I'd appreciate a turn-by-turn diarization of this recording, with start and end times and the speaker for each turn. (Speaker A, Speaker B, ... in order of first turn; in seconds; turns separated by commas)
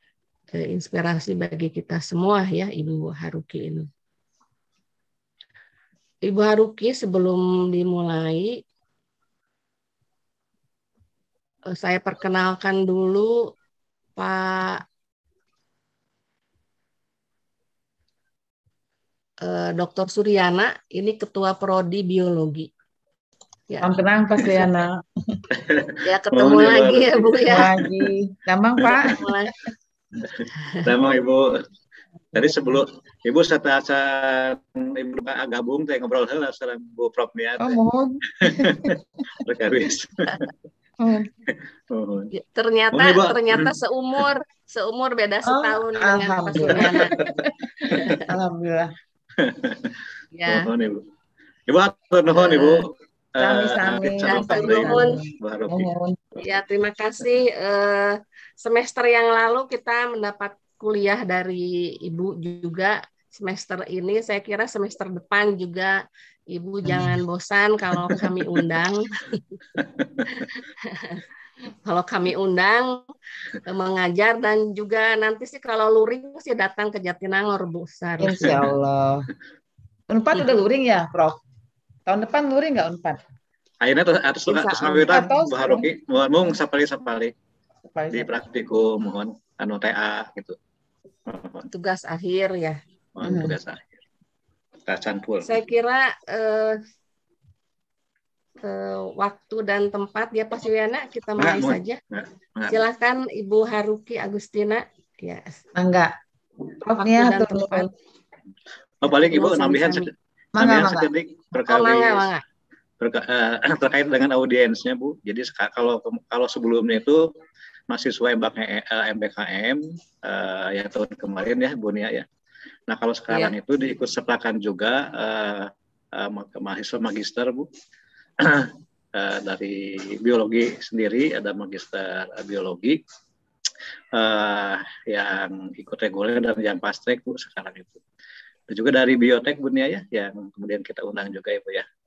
Speaker A: 0.5-3.9, Speaker A: 6.2-8.6, Speaker A: 11.7-13.5, Speaker A: 14.2-14.8, Speaker A: 19.4-22.7, Speaker A: 23.7-24.0, Speaker B: 23.8-25.0, Speaker C: 25.5-27.9, Speaker A: 26.0-27.7, Speaker B: 27.5-29.2, Speaker C: 28.8-29.1, Speaker A: 29.0-29.5, Speaker C: 30.2-31.7, Speaker C: 32.3-37.8, Speaker B: 37.6-39.0, Speaker C: 38.4-40.5, Speaker B: 41.0-41.3, Speaker C: 41.5-42.3, Speaker A: 42.3-47.3, Speaker C: 42.9-43.7, Speaker B: 45.4-48.9, Speaker C: 46.8-47.2, Speaker A: 47.9-48.2, Speaker C: 49.4-51.1, Speaker A: 50.3-50.7, Speaker C: 51.7-55.9, Speaker B: 53.4-56.2, Speaker A: 54.2-55.2, Speaker A: 56.4-69.6, Speaker B: 66.8-67.1, Speaker A: 70.2-71.2, Speaker A: 71.8-73.1, Speaker A: 73.6-78.6, Speaker B: 78.2-79.3, Speaker C: 78.4-78.7, Speaker B: 80.1-81.4, Speaker B: 82.1-83.2, Speaker C: 83.8-87.3, Speaker A: 84.5-85.2, Speaker B: 84.8-85.8, Speaker B: 87.9-88.3, Speaker C: 88.1-90.6, Speaker C: 91.2-91.7, Speaker A: 91.7-92.8, Speaker C: 93.2-94.0, Speaker B: 93.2-93.5, Speaker C: 94.8-95.6, Speaker A: 95.4-96.8, Speaker A: 98.6-102.0, Speaker C: 101.4-102.8, Speaker A: 102.7-105.6, Speaker B: 105.7-106.1, Speaker B: 106.7-107.9, Speaker A: 107.0-107.9, Speaker C: 109.0-112.3, Speaker A: 109.0-110.1, Speaker B: 110.5-111.1, Speaker A: 111.7-112.4, Speaker C: 113.0-117.3, Speaker C: 117.9-122.3, Speaker C: 122.9-127.7, Speaker C: 128.4-133.0, Speaker C: 134.1-138.0, Speaker C: 138.7-141.8